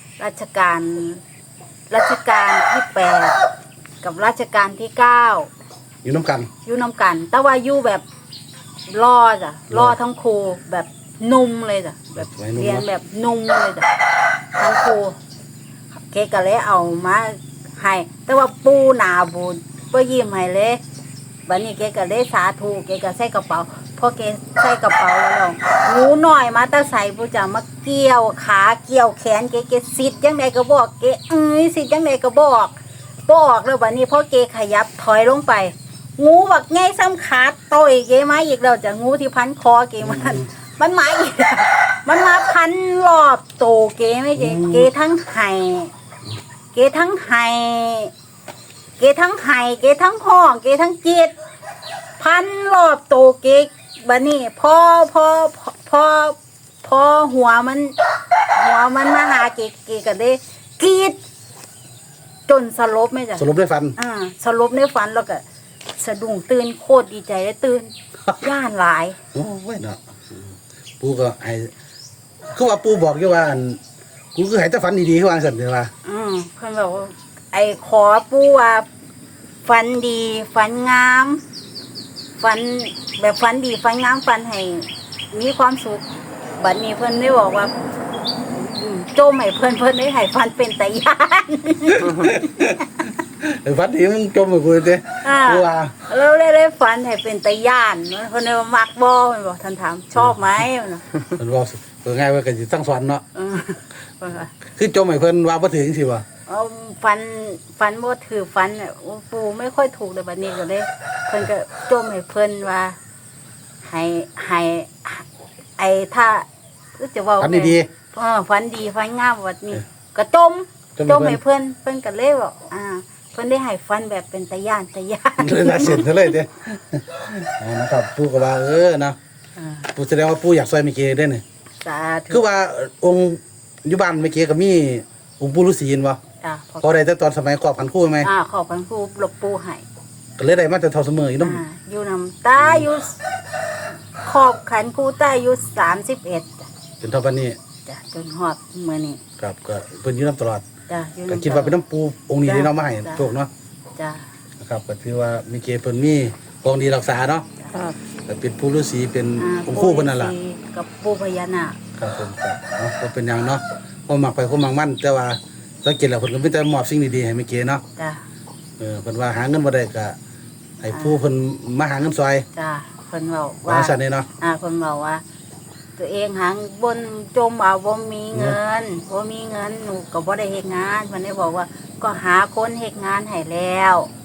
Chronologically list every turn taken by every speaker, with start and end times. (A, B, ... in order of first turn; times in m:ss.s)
0:00.2-0:01.2 A
0:01.9-0:03.4 A
0:04.0-0:05.5 A
0:06.0-0:06.5 B
0:06.6-0:08.0 A
0:08.9-0:15.2 A
0:09.7-0:10.0 B
0:12.1-0:12.9 B
0:16.0-0:20.8 A
0:21.4-0:45.9 A
0:40.0-0:40.5 B
0:44.4-0:44.9 B
0:46.7-0:48.1 A
0:49.0-0:51.3 A
0:52.2-0:58.0 A
0:58.5-1:01.2 A
1:02.5-1:09.2 A
1:03.4-1:04.0 B
1:09.3-1:11.7 B
1:12.5-1:13.8 B
1:14.3-1:15.9 B
1:16.0-1:18.9 A
1:19.6-1:21.4 A
1:22.4-1:27.7 A
1:28.4-1:32.1 A
1:32.0-1:32.8 B
1:33.4-1:36.0 B
1:35.2-1:41.0 A
1:41.4-1:43.2 B
1:43.3-1:44.5 A
1:44.6-1:46.2 B
1:46.5-1:53.0 A
1:53.8-2:06.0 A
1:57.4-1:57.9 B
2:01.0-2:01.4 B
2:05.4-2:09.2 B
2:09.6-2:09.9 A
2:09.9-2:11.4 B
2:11.8-2:12.4 A
2:12.3-2:16.2 B
2:16.4-2:16.9 A
2:16.8-2:18.3 B
2:18.2-2:19.8 A
2:20.4-2:21.6 B
2:21.4-2:23.2 A
2:22.6-2:22.9 B
2:24.2-2:26.7 A
2:27.0-2:27.6 B
2:27.8-2:29.2 A
2:29.4-2:30.6 B
2:30.9-2:31.7 A
2:31.3-2:33.5 B
2:32.4-2:33.3 A
2:34.0-2:34.3 A
2:34.6-2:37.5 B
2:38.3-2:40.3 B
2:39.4-2:41.8 A
2:42.0-2:47.8 B
2:48.0-2:48.2 A
2:48.8-2:50.2 B
2:50.8-2:52.4 B
2:50.9-2:51.2 A
2:52.5-2:55.2 A
2:53.7-2:54.3 B
2:56.0-3:04.1 A
2:58.3-2:58.6 B